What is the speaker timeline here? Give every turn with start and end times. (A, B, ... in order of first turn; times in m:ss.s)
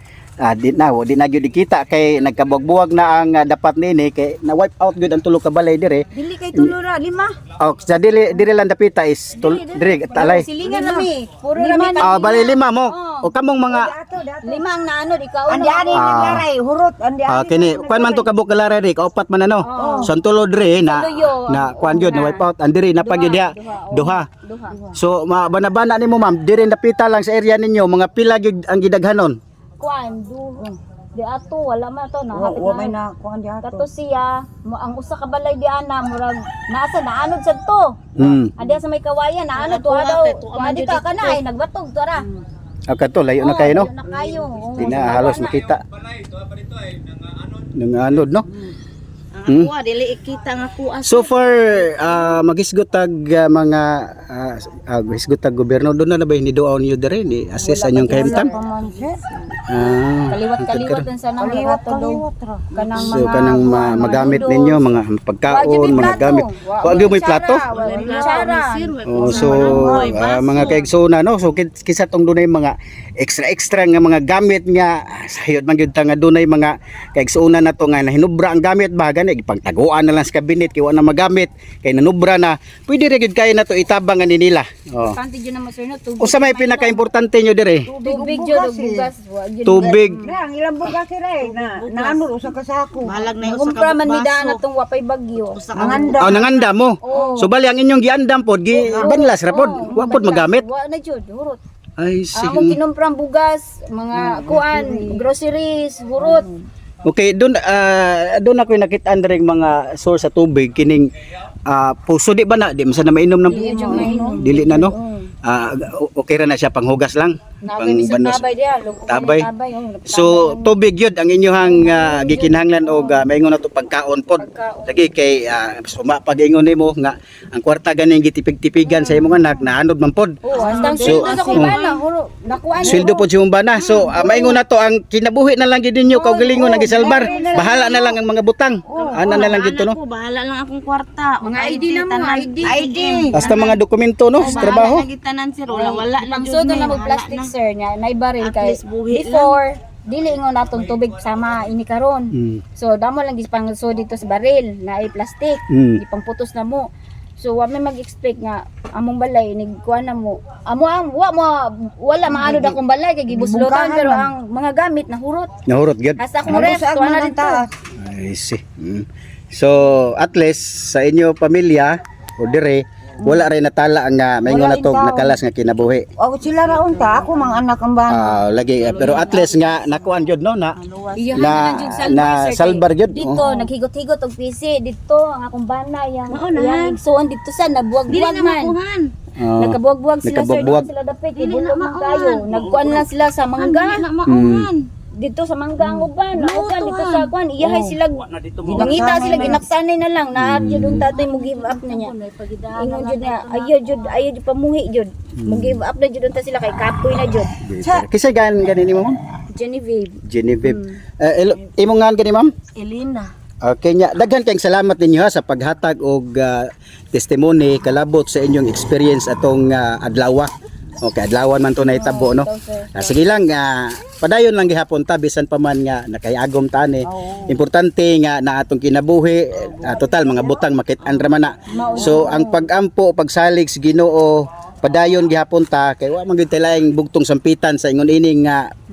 0:00.4-0:06.7 A
0:06.1-0:07.4 B
0:07.6-0:10.5 A
0:09.4-0:13.3 B
0:10.6-0:12.3 C
0:12.0-0:13.9 A
0:13.7-0:14.6 C
0:14.4-0:16.3 B
0:15.5-0:18.3 C
0:15.9-0:16.5 A
0:17.3-0:24.3 A
0:19.6-0:20.1 B
0:19.8-0:20.1 C
0:20.9-0:22.5 B
0:23.0-0:24.8 B
0:24.9-0:29.4 A
0:29.8-0:33.0 B
0:32.3-0:33.9 C
0:33.6-0:42.3 B
0:38.2-0:38.6 A
0:39.6-0:41.4 D
0:42.9-0:43.9 A
0:43.4-0:45.6 B
0:44.8-0:45.8 A
0:47.6-0:48.5 A
0:49.3-0:52.3 D
0:51.0-0:58.5 A
0:57.6-0:59.2 C
0:58.1-0:59.1 B
0:59.7-1:01.1 A
1:00.3-1:04.9 B
1:01.4-1:03.3 C
1:03.0-1:07.7 A
1:05.5-1:09.7 B
1:07.7-1:10.9 D
1:07.8-1:08.3 C
1:09.0-1:25.2 A
1:09.4-1:10.2 C
1:25.0-1:27.1 B
1:26.2-1:27.9 A
1:27.9-1:29.1 C
1:28.0-1:30.4 B
1:29.7-1:30.2 A
1:29.8-1:33.2 C
1:31.4-1:32.2 D
1:33.0-1:34.6 D
1:33.4-1:35.6 B
1:35.5-1:36.7 D
1:35.7-1:36.4 C
1:35.8-1:40.6 A
1:37.0-1:37.5 B
1:38.8-1:41.6 B
1:38.8-1:39.2 C
1:42.0-1:42.8 A
1:42.3-1:46.5 B
1:44.2-1:45.3 C
1:46.2-1:46.6 C
1:47.0-1:51.1 A
1:51.7-1:58.4 A
1:53.5-1:55.3 B
1:53.7-1:54.4 C
1:57.6-2:00.8 B
1:59.1-1:59.5 A
2:00.1-2:11.8 A
2:01.6-2:03.2 B
2:04.4-2:05.0 B
2:08.9-2:09.4 B
2:10.4-2:13.2 B
2:10.6-2:11.9 D
2:10.6-2:11.0 C
2:12.8-2:20.0 A
2:13.8-2:14.6 B
2:16.1-2:18.1 B
2:16.5-2:17.7 C
2:18.9-2:19.4 C
2:18.9-2:23.8 D
2:21.4-2:22.9 B
2:22.6-2:23.5 C
2:23.3-2:25.0 A
2:24.4-2:27.5 D
2:24.4-2:24.9 B
2:25.7-2:45.5 B
2:28.4-2:29.6 D
2:32.4-2:32.6 A
2:35.7-2:36.0 A
2:42.3-2:42.8 A
2:43.3-2:44.3 C
2:45.7-2:46.6 A
2:46.2-2:47.6 B
2:46.5-2:47.7 C
2:48.0-2:56.1 A
2:53.2-2:53.5 C
2:54.4-2:55.4 C
2:56.2-2:58.4 C
2:56.7-2:57.5 B
2:58.1-3:00.8 A
2:58.8-3:00.0 B
2:59.0-2:59.3 D
3:00.9-3:01.6 C
3:01.2-3:08.8 B
3:01.4-3:03.5 A
3:06.3-3:07.0 D
3:08.1-3:09.1 D
3:09.4-3:10.9 A
3:09.6-3:14.0 B
3:11.4-3:14.9 D
3:14.3-3:14.7 A
3:15.2-3:22.1 B
3:16.3-3:17.3 D
3:17.6-3:18.0 C
3:18.4-3:19.2 A
3:18.6-3:19.6 C
3:20.4-3:21.1 A
3:21.1-3:24.2 D
3:22.8-3:27.5 B
3:25.4-3:25.8 A
3:27.6-3:29.2 A
3:29.6-3:30.2 B
3:30.2-3:32.5 A
3:32.8-3:33.3 D
3:33.6-3:58.7 A
3:41.8-3:43.0 B
3:47.2-3:47.5 C
3:51.7-3:52.7 B
3:51.9-3:52.2 C